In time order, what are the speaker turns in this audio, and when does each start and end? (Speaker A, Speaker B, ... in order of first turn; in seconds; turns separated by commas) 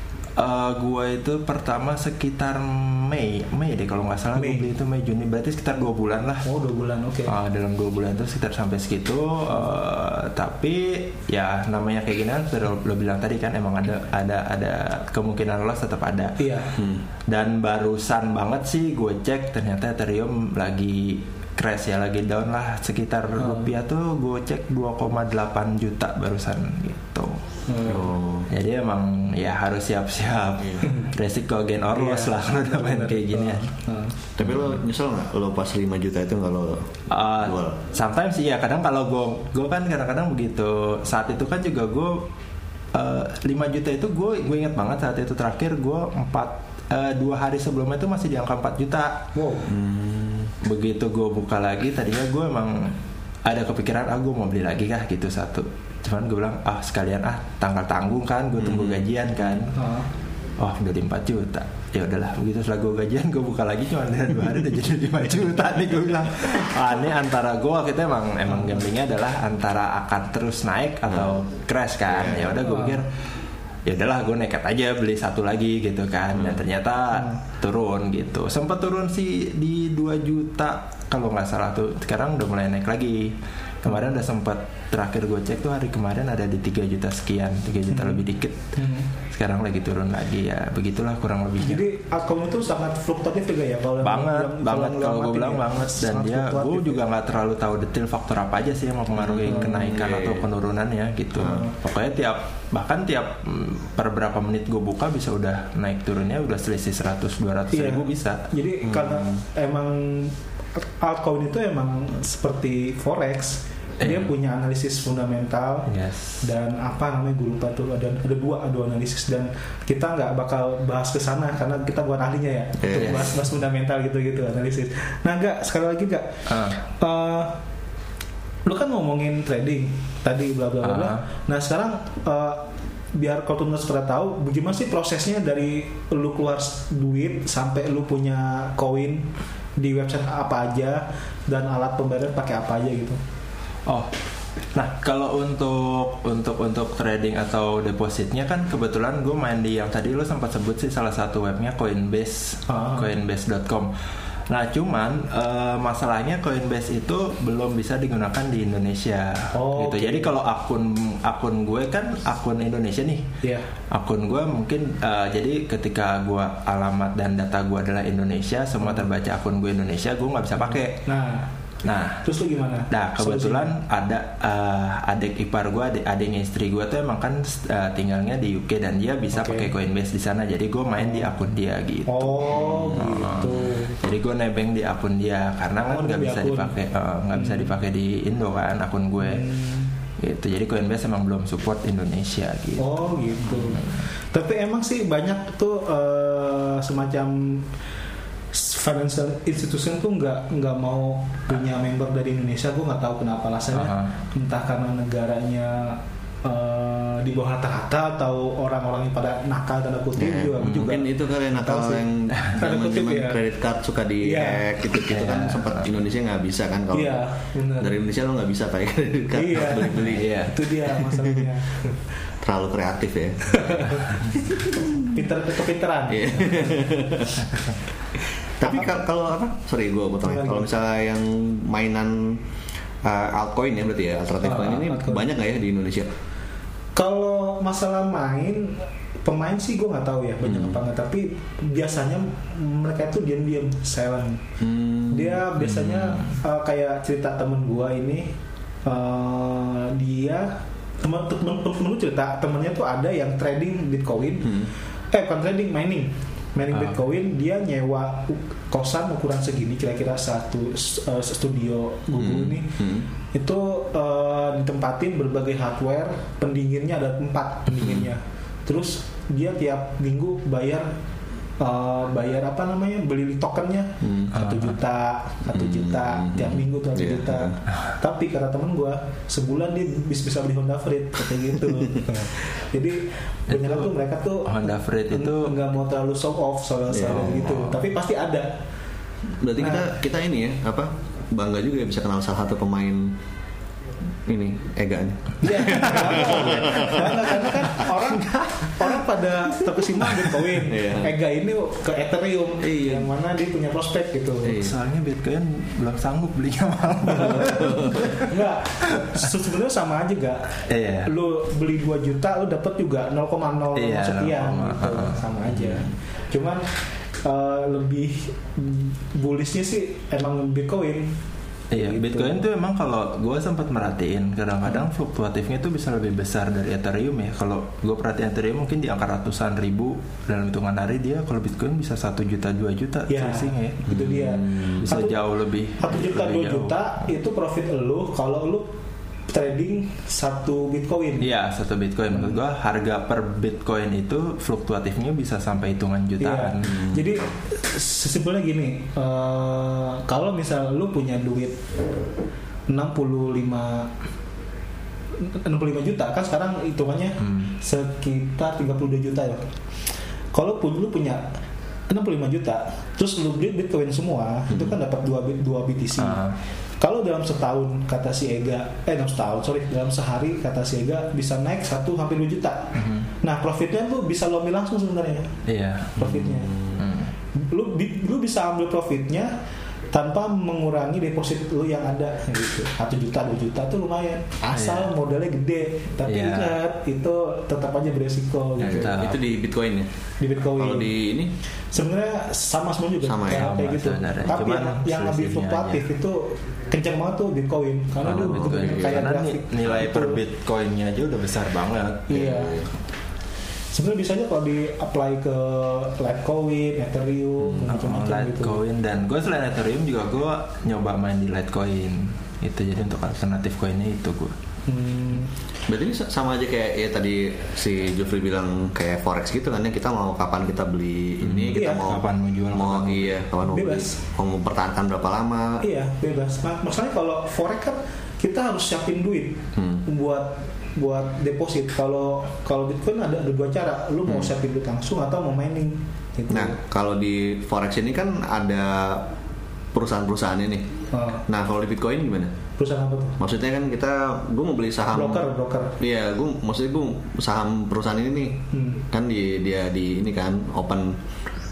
Speaker A: 0.4-6.5, Speaker B: 4.3-4.7, Speaker B: 6.5-7.3, Speaker A: 7.3-16.4, Speaker B: 16.4-16.7, Speaker C: 16.8-17.0, Speaker A: 17.3-28.0, Speaker B: 23.4-23.7, Speaker B: 27.7-28.1, Speaker C: 27.9-28.5, Speaker A: 28.5-33.7, Speaker C: 30.6-30.8, Speaker B: 31.9-34.1, Speaker C: 34.4-37.8, Speaker A: 34.4-34.7, Speaker A: 37.1-42.2, Speaker A: 42.9-49.3, Speaker B: 49.3-49.7, Speaker C: 49.7-50.5, Speaker A: 50.6-52.9, Speaker A: 53.5-59.8, Speaker C: 58.6-59.1, Speaker B: 59.7-60.1, Speaker A: 60.6-73.1, Speaker B: 68.5-68.8, Speaker C: 72.1-72.6, Speaker B: 72.6-73.0, Speaker A: 73.9-88.6, Speaker C: 76.3-76.6, Speaker B: 87.9-88.2, Speaker B: 88.8-89.1, Speaker A: 89.3-91.8, Speaker B: 91.6-97.0, Speaker A: 94.0-108.5, Speaker C: 99.2-100.5, Speaker B: 99.5-99.9, Speaker C: 101.4-101.7, Speaker B: 101.4-101.7, Speaker B: 107.7-115.9, Speaker A: 114.0-114.3, Speaker A: 115.9-116.4, Speaker B: 116.4-127.6, Speaker C: 122.8-123.3, Speaker A: 122.9-123.3, Speaker A: 126.5-126.8, Speaker B: 128.7-143.2, Speaker A: 130.8-131.2, Speaker A: 144.7-153.9, Speaker B: 152.7-153.1, Speaker A: 154.5-163.3, Speaker B: 159.5-160.3, Speaker B: 163.4-163.7, Speaker A: 163.9-171.0, Speaker B: 170.6-171.5, Speaker A: 171.8-172.2, Speaker B: 172.1-173.7, Speaker A: 172.9-189.5, Speaker B: 179.3-179.7, Speaker B: 181.0-181.3, Speaker B: 182.1-184.0, Speaker C: 182.7-183.0, Speaker B: 185.9-186.7, Speaker B: 187.3-187.7, Speaker B: 189.2-189.9, Speaker A: 190.2-193.9, Speaker B: 192.8-197.7, Speaker B: 198.5-213.4, Speaker A: 203.8-204.1, Speaker C: 210.2-220.3, Speaker A: 210.6-210.9, Speaker B: 214.2-214.7, Speaker A: 215.1-215.9, Speaker B: 216.9-217.9, Speaker B: 219.3-222.0, Speaker A: 220.0-220.6, Speaker C: 220.9-221.5, Speaker C: 222.4-224.0, Speaker B: 223.5-224.1, Speaker B: 224.9-226.6, Speaker C: 226.1-227.6, Speaker C: 228.6-232.4, Speaker B: 228.6-228.9, Speaker B: 230.2-230.7, Speaker C: 233.0-236.1, Speaker B: 234.4-235.3, Speaker B: 236.9-244.4, Speaker C: 240.4-240.8, Speaker C: 244.6-245.4, Speaker B: 245.1-248.3, Speaker A: 245.6-246.3, Speaker B: 248.8-262.8, Speaker C: 254.4-254.7, Speaker C: 262.1-263.1, Speaker B: 263.3-270.9, Speaker B: 271.6-288.6, Speaker C: 274.0-274.3, Speaker A: 274.4-274.8, Speaker C: 275.5-277.6, Speaker A: 283.5-283.9, Speaker A: 284.4-285.7, Speaker C: 286.9-287.8, Speaker A: 287.2-287.8, Speaker C: 289.4-293.2, Speaker B: 289.6-289.9, Speaker C: 294.3-297.9, Speaker B: 295.4-304.6, Speaker C: 300.5-301.1, Speaker C: 302.6-303.1, Speaker C: 304.4-304.7, Speaker A: 304.5-308.3, Speaker C: 307.4-308.0, Speaker B: 308.1-321.2, Speaker A: 310.7-311.1, Speaker A: 313.8-315.7, Speaker B: 321.7-322.4, Speaker A: 321.7-334.0, Speaker B: 333.1-335.2, Speaker C: 333.9-334.9, Speaker A: 334.8-336.8, Speaker B: 335.8-338.7, Speaker B: 339.3-341.3, Speaker A: 341.2-346.8, Speaker B: 342.1-342.4, Speaker B: 346.2-351.7, Speaker C: 346.6-347.2, Speaker B: 352.7-353.9, Speaker B: 355.2-359.4, Speaker B: 360.3-361.3, Speaker B: 361.9-366.2, Speaker C: 364.5-364.8, Speaker A: 366.0-366.4, Speaker B: 366.8-375.4, Speaker A: 372.8-373.1, Speaker A: 375.5-376.3, Speaker B: 376.0-376.5, Speaker C: 376.0-376.8, Speaker A: 376.8-377.1, Speaker B: 377.4-379.3, Speaker B: 379.9-389.1, Speaker A: 384.5-384.9, Speaker A: 386.1-386.6, Speaker C: 388.6-389.9, Speaker A: 388.6-389.2, Speaker B: 390.2-390.9, Speaker C: 390.6-391.3, Speaker B: 391.7-400.2, Speaker C: 393.0-393.6, Speaker A: 393.3-395.9, Speaker A: 398.0-402.3, Speaker C: 398.1-398.9, Speaker B: 402.1-402.6, Speaker C: 402.1-402.7, Speaker B: 403.7-408.6, Speaker A: 407.7-414.4, Speaker B: 414.7-415.3, Speaker C: 415.7-425.6, Speaker A: 421.2-423.2, Speaker B: 421.5-421.9, Speaker B: 423.4-424.0, Speaker B: 425.6-436.6, Speaker C: 429.6-429.8, Speaker C: 434.1-434.3, Speaker C: 436.3-439.1, Speaker C: 439.7-440.7, Speaker B: 440.9-441.2, Speaker C: 441.3-442.3, Speaker B: 442.6-443.2, Speaker C: 443.2-445.3, Speaker B: 444.9-445.8, Speaker C: 445.8-451.0, Speaker B: 448.5-448.8